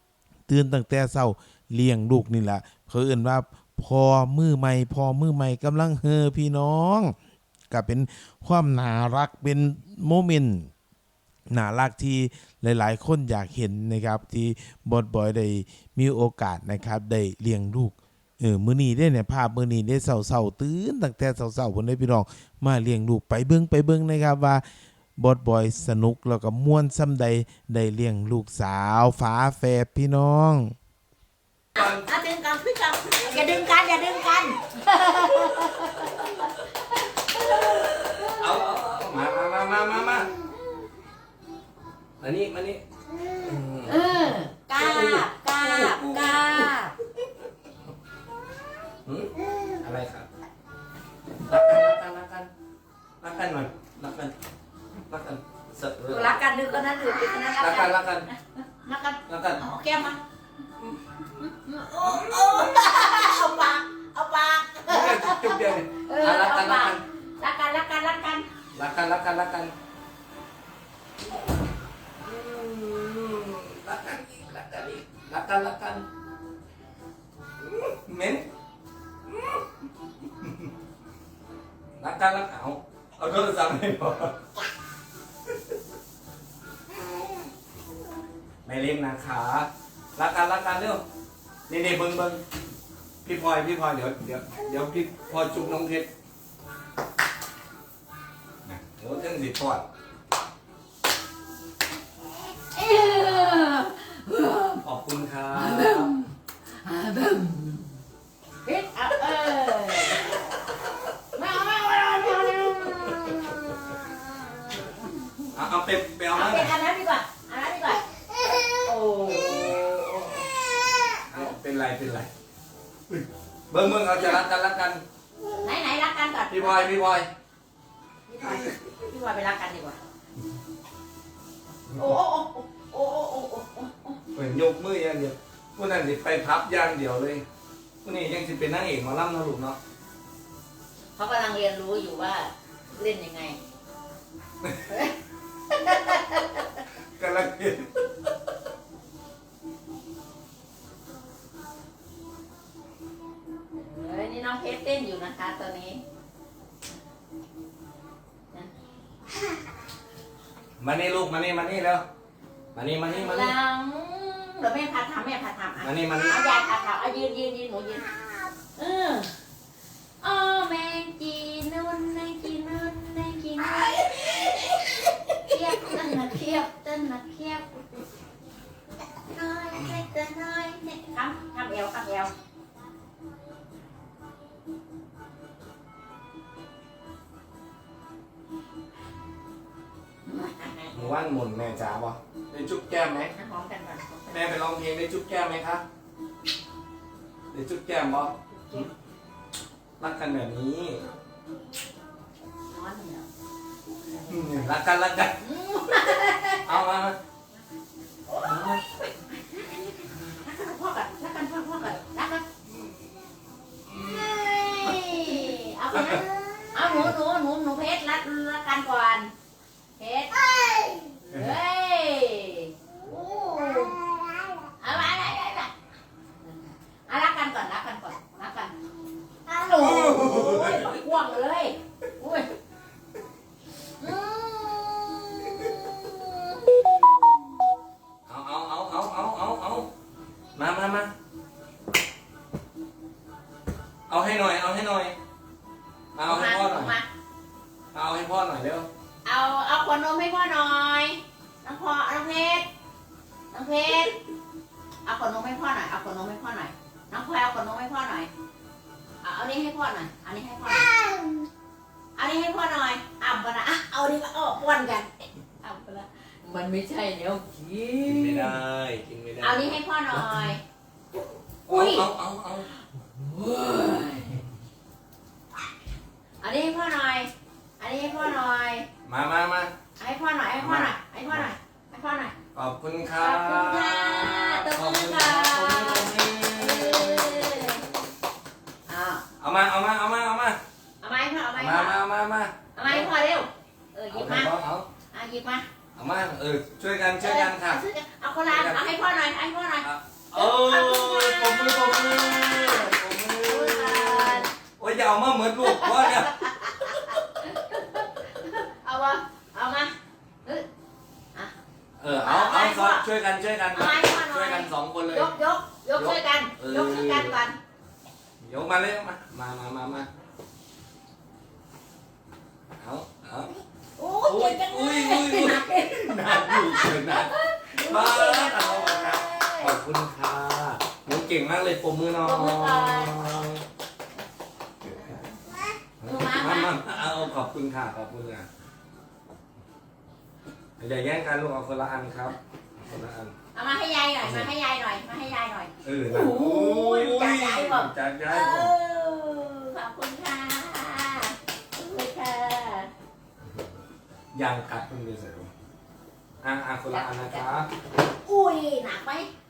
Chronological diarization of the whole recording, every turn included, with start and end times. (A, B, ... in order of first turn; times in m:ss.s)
0:00.5-0:07.1 A
0:07.7-0:10.7 A
0:11.5-0:24.6 A
0:25.2-0:30.7 A
0:31.8-0:32.1 B
0:31.8-0:38.5 C
0:37.6-0:40.3 B
0:42.2-0:44.1 B
0:43.8-0:46.9 C
0:44.8-0:46.8 B
0:49.0-0:50.3 B
0:51.4-0:52.5 B
0:53.2-0:54.3 B
0:55.1-0:56.4 B
0:56.1-1:00.2 C
0:57.6-0:58.3 B
0:59.3-0:59.6 B
1:01.3-1:08.4 C
1:02.0-1:02.7 B
1:04.9-1:07.0 B
1:08.7-1:09.7 B
1:12.2-1:16.0 B
1:17.6-1:18.4 B
1:19.3-1:19.6 B
1:20.4-1:20.7 B
1:22.0-1:24.4 B
1:28.6-1:31.0 B
1:31.7-1:32.4 B
1:33.2-1:36.1 B
1:38.6-1:39.8 B
1:42.7-1:44.8 C
1:44.8-1:46.1 B
1:45.5-1:47.9 C
1:48.6-1:50.4 C
1:51.3-1:54.0 C
1:54.7-1:55.5 C
1:55.5-1:56.7 B
1:56.3-1:58.0 C
1:58.6-2:00.5 C
2:01.3-2:02.3 B
2:03.1-2:05.0 B
2:05.6-2:06.9 C
2:06.5-2:07.3 B
2:08.3-2:10.0 C
2:08.4-2:08.7 B
2:11.9-2:14.2 C
2:14.3-2:17.4 B
2:18.0-2:19.8 B
2:21.2-2:23.6 C
2:24.9-2:25.1 C
2:25.7-2:26.6 C
2:27.2-2:28.0 B
2:33.7-2:36.0 C
2:40.8-2:42.0 B
2:42.7-2:43.5 B
2:43.1-2:48.1 C
2:45.8-2:46.4 B
2:48.7-2:49.3 C
2:50.2-2:58.0 C
2:59.2-3:02.3 C
3:10.2-3:11.1 C
3:10.9-3:13.3 B
3:13.3-3:14.6 C
3:14.3-3:15.8 B
3:17.5-3:18.9 B
3:18.5-3:18.9 C
3:20.0-3:21.0 B
3:22.7-3:23.3 C
3:24.1-3:24.7 C
3:24.3-3:25.4 B
3:25.4-3:26.8 C
3:26.6-3:27.2 B
3:28.2-3:32.4 C
3:28.5-3:28.8 B
3:33.9-3:39.3 C
3:35.9-3:36.2 B
3:40.0-3:44.0 C
3:44.8-3:45.7 C
3:46.7-3:48.7 C
3:49.4-3:52.5 C
3:49.8-3:51.0 B
3:54.0-3:56.5 C
3:58.3-3:59.9 B
4:00.5-4:01.1 B
4:04.1-4:05.2 B
4:06.1-4:06.9 B
4:06.2-4:07.1 C
4:07.9-4:08.9 B
4:09.2-4:12.7 C
4:13.5-4:14.2 C
4:15.0-4:18.3 C
4:19.2-4:20.9 C
4:22.2-4:25.1 C
4:25.6-4:28.6 C
4:28.0-4:30.2 B
4:29.4-4:30.6 C
4:31.7-4:32.0 C
4:31.7-4:32.7 B
4:33.0-4:34.4 C
4:36.4-4:38.9 C
4:39.0-4:39.7 B
4:40.0-4:42.3 C
4:40.6-4:41.5 B
4:42.5-4:47.8 B
4:43.2-4:47.8 C
4:48.9-4:49.2 C
4:49.4-4:50.6 B
4:51.0-4:52.0 C
4:51.6-4:53.1 B
4:52.7-4:54.5 C
4:54.1-4:54.9 B
4:55.1-4:55.6 C
4:56.0-4:57.8 B
4:57.2-5:04.5 C
4:58.5-4:58.8 B
4:59.8-5:06.4 B
5:05.6-5:09.9 C
5:12.0-5:15.3 B
5:12.1-5:13.0 C
5:13.7-5:17.6 C
5:15.9-5:17.4 B
5:18.4-5:20.1 B
5:22.8-5:23.5 B
5:24.0-5:29.8 C
5:24.2-5:33.6 B
5:32.2-5:33.2 C
5:34.9-5:37.1 C
5:36.0-5:38.4 B
5:40.8-5:43.3 B
5:43.5-5:52.9 C
5:44.2-5:44.5 B
5:45.8-5:48.7 B
5:54.3-5:55.5 B
5:56.4-5:57.7 B
5:56.9-5:57.6 C
5:58.2-5:59.3 C